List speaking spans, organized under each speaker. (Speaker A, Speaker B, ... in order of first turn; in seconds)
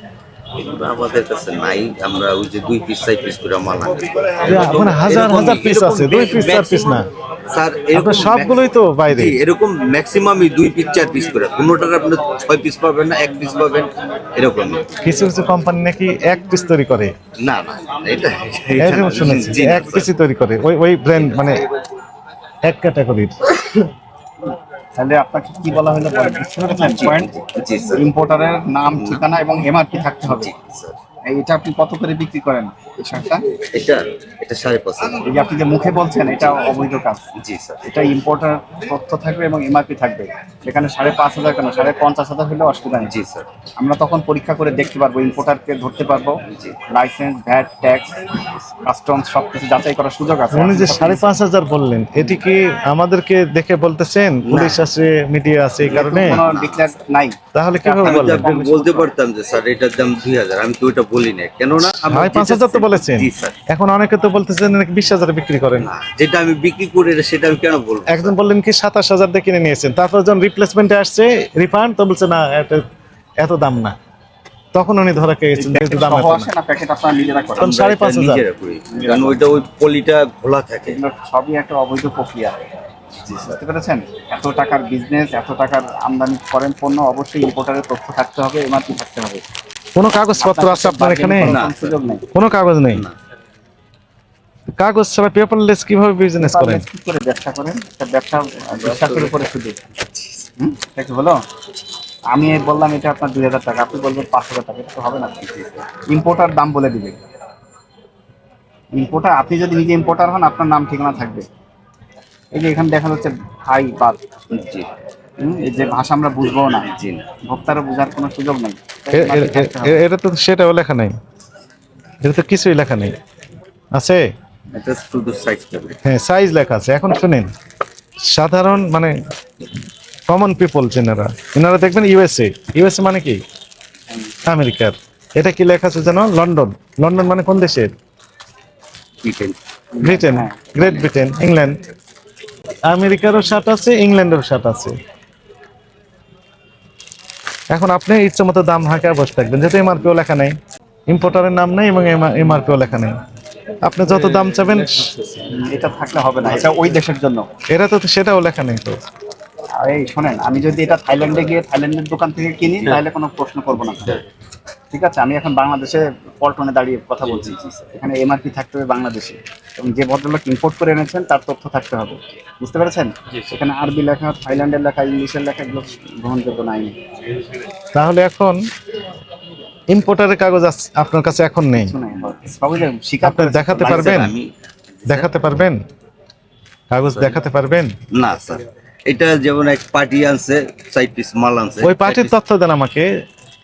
Speaker A: 0.6-14.9, 17.4-20.1, 21.1-21.6, 26.7-28.0, 29.0-29.2, 30.3-31.0, 33.7-35.2, 37.4-37.8, 43.1-43.5, 46.5-46.8, 54.5-54.9, 55.9-56.9, 58.0-63.6, 65.8-68.4, 77.7-81.0, 91.4-92.0, 98.8-99.4, 105.5-105.9, 114.5-114.9, 116.7-117.3, 124.7-126.0, 139.2-139.6, 140.8-141.1, 167.3-167.9, 183.8-185.3, 188.1-192.3
Speaker B: 4.4-7.1, 7.9-9.4, 15.0-17.1, 18.8-21.6, 22.6-23.4, 50.5-56.4, 57.5-58.5, 61.8-65.9, 68.1-72.8, 73.4-74.0, 74.7-76.5, 77.6-78.4, 90.0-91.6, 92.3-93.0, 94.8-96.8, 119.1-121.2, 122.2-123.1, 124.0-124.2, 126.0-127.5, 128.3-129.2, 130.3-133.4, 134.5-137.9, 140.0-141.8, 142.9-144.9, 147.7-150.6, 151.1-153.2, 153.8-155.2, 157.7-159.0, 177.9-178.7, 179.9-181.9, 183.2-184.3, 185.1-185.8, 186.9-188.0, 191.8-193.1
Speaker C: 24.9-27.3, 27.9-30.5, 31.3-33.5, 35.2-37.2, 37.8-43.2, 43.8-46.4, 46.9-48.2, 48.8-51.3, 55.9-59.1, 75.6-77.8, 78.9-79.5, 80.8-82.6, 83.3-89.4, 90.4-92.2, 96.4-99.8, 100.6-101.4, 102.3-105.4, 106.1-107.2, 108.9-111.5, 112.5-114.2, 115.4-116.9, 117.5-120.0, 139.9-140.8, 155.5-157.5, 159.8-164.2, 164.9-177.0, 181.8-184.3